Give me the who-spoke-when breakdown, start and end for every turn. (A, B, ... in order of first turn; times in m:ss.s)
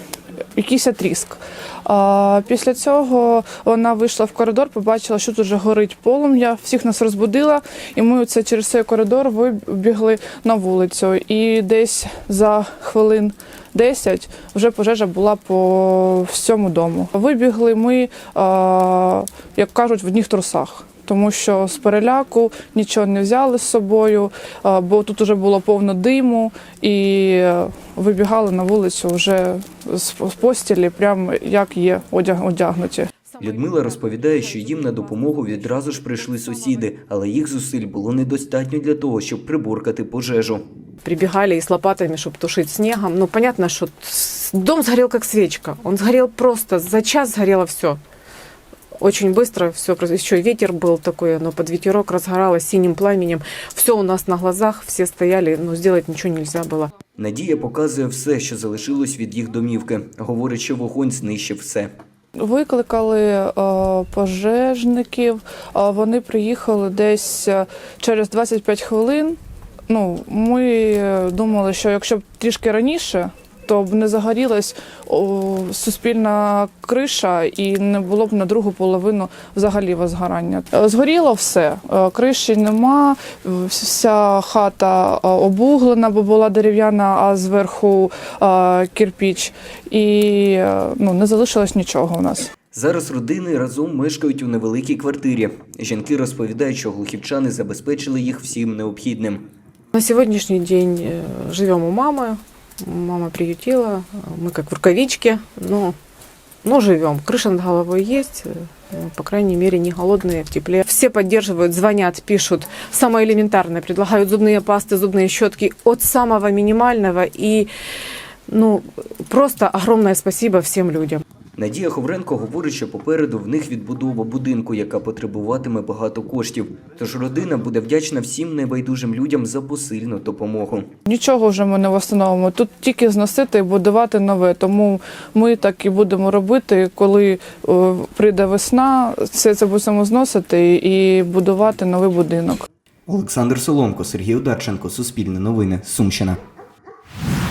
0:00.6-0:33.1 A
0:33.3-0:36.8 B
0:33.4-0:40.6 C
0:41.0-0:48.0 B
0:49.0-0:56.9 B
0:57.2-1:01.9 C
1:02.4-1:32.5 A
1:32.7-1:39.4 C
1:39.9-1:46.0 B
1:46.6-1:57.7 B
1:58.5-2:01.2 B
2:01.6-2:10.9 C
2:11.1-2:22.6 A
2:23.1-2:26.4 C